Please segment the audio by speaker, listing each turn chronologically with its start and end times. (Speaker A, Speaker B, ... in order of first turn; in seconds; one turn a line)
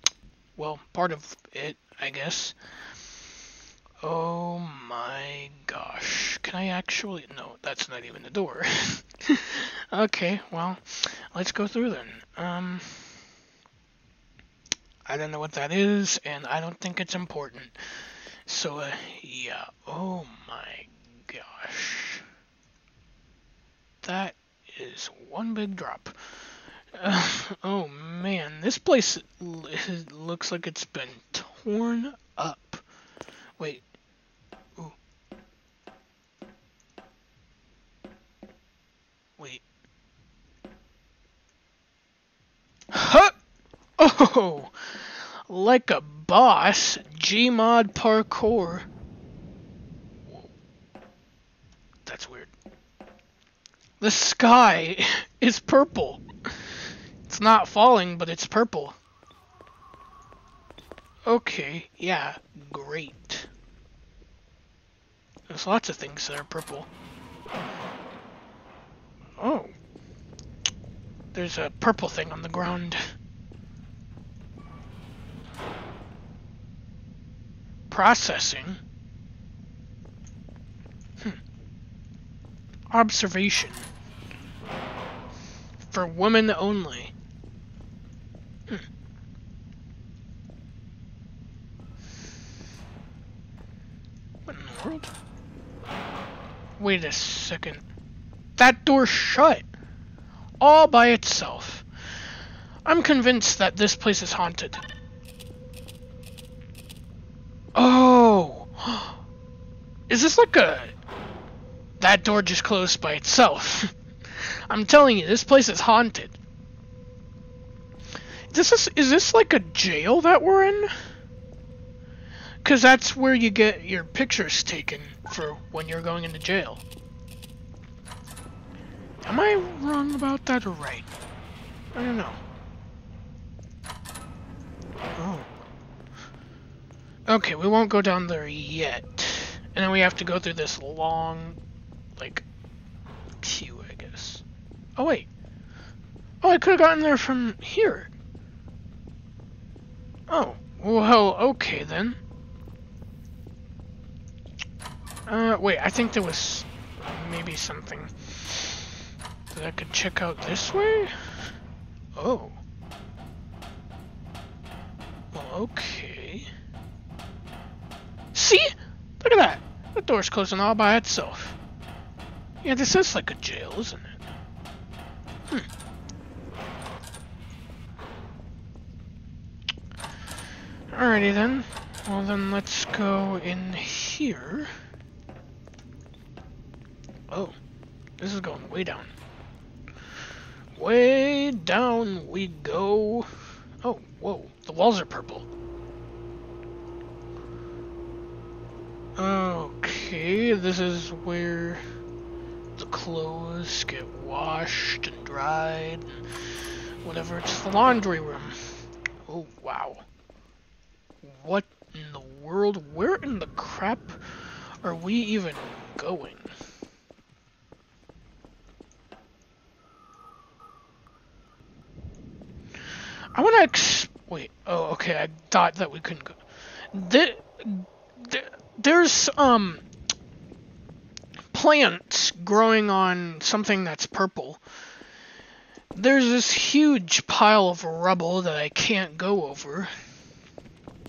Speaker A: 0.6-2.5
Speaker A: 4.0-13.2
Speaker A: 15.1-17.8
Speaker A: 18.4-22.2
Speaker A: 24.0-26.4
Speaker A: 26.9-32.8
Speaker A: 33.6-33.8
Speaker A: 39.4-39.6
Speaker A: 42.9-43.4
Speaker A: 44.0-48.9
Speaker A: 52.0-52.5
Speaker A: 54.0-59.0
Speaker A: 61.2-63.5
Speaker A: 65.5-66.9
Speaker A: 69.4-69.7
Speaker A: 71.3-73.1
Speaker A: 77.9-78.8
Speaker A: 82.9-83.9
Speaker A: 85.9-87.1
Speaker A: 94.5-95.1
Speaker A: 96.8-97.8
Speaker A: 98.6-99.7
Speaker A: 100.6-101.8
Speaker A: 102.8-104.8
Speaker A: 107.7-109.2
Speaker A: 110.1-110.9
Speaker A: 112.0-116.4
Speaker A: 118.5-120.9
Speaker A: 122.6-126.8
Speaker A: 129.2-131.1
Speaker A: 131.9-132.4
Speaker A: 135.2-135.5
Speaker A: 137.2-141.6
Speaker A: 142.2-142.4
Speaker A: 143.4-144.4
Speaker A: 145.0-145.3
Speaker A: 146.4-148.1
Speaker A: 150.3-152.2
Speaker A: 155.3-159.0
Speaker A: 159.5-161.5
Speaker A: 162.2-162.6
Speaker A: 165.3-166.5
Speaker A: 168.3-171.6
Speaker A: 172.6-174.2
Speaker A: 180.9-184.7
Speaker A: 187.3-187.5
Speaker A: 188.2-189.1
Speaker A: 190.7-193.3
Speaker A: 193.8-195.5
Speaker A: 199.2-201.8
Speaker A: 202.8-210.1
Speaker A: 211.2-216.5
Speaker A: 223.3-226.4
Speaker A: 226.9-229.8
Speaker A: 231.5-234.6
Speaker A: 235.9-239.9